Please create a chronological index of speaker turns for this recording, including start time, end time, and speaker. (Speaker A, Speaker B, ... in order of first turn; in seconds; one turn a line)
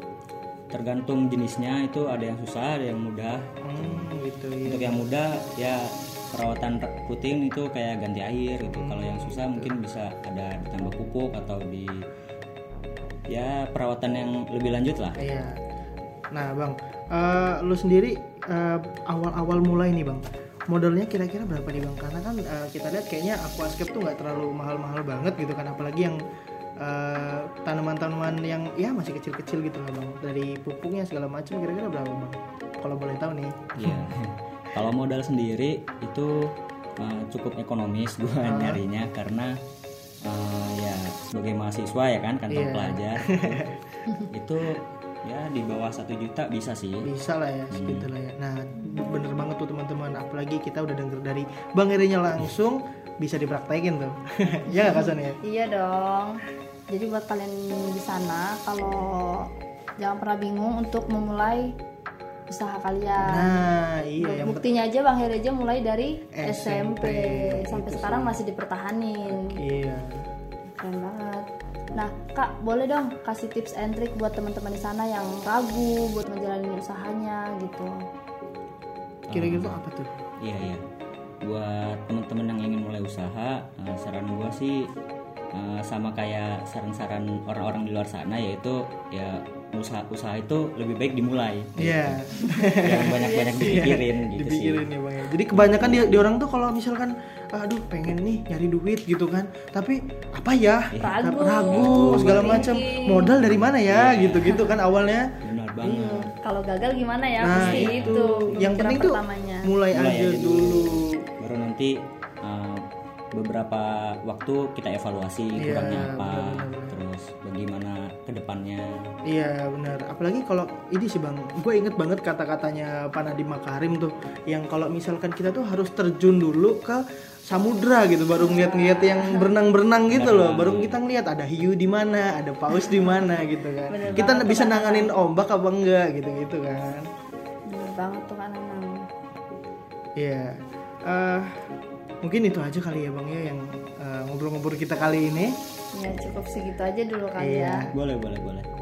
Speaker A: 0.7-4.1
Speaker B: 3.6-5.1
Speaker A: 4.6-11.9
Speaker B: 8.7-9.7
Speaker A: 13.3-15.2
Speaker B: 15.2-15.6
Speaker B: 16.3-26.2
Speaker B: 26.8-34.1
Speaker A: 33.8-39.5
Speaker B: 38.4-38.8
Speaker A: 40.2-43.6
Speaker B: 42.5-43.8
Speaker A: 44.3-47.1
Speaker B: 47.0-55.4
Speaker A: 47.7-48.1
Speaker C: 54.8-61.8
Speaker C: 62.5-63.6
Speaker B: 63.2-64.6
Speaker C: 64.2-69.6
Speaker B: 66.3-68.4
Speaker B: 69.3-70.2
Speaker C: 70.8-78.0
Speaker A: 79.3-79.8
Speaker B: 79.3-80.1
Speaker A: 80.4-80.8
Speaker A: 81.4-84.8
Speaker A: 85.5-92.2
Speaker B: 91.8-105.3
Speaker A: 92.8-94.9
Speaker C: 93.0-93.7
Speaker A: 95.5-96.3
Speaker A: 100.9-102.7
Speaker C: 101.0-103.3
Speaker A: 103.4-104.6
Speaker A: 105.4-106.3
Speaker B: 105.8-106.3
Speaker C: 106.4-109.7
Speaker B: 107.4-111.2
Speaker A: 107.5-108.8
Speaker A: 109.9-112.8
Speaker A: 113.3-119.0
Speaker B: 115.6-116.9
Speaker B: 119.2-137.1
Speaker C: 128.4-129.5
Speaker A: 130.1-131.0
Speaker C: 133.9-135.1
Speaker C: 137.7-139.1
Speaker B: 140.2-141.6
Speaker B: 142.2-145.6
Speaker C: 145.9-147.9
Speaker B: 147.4-147.9
Speaker A: 147.9-148.7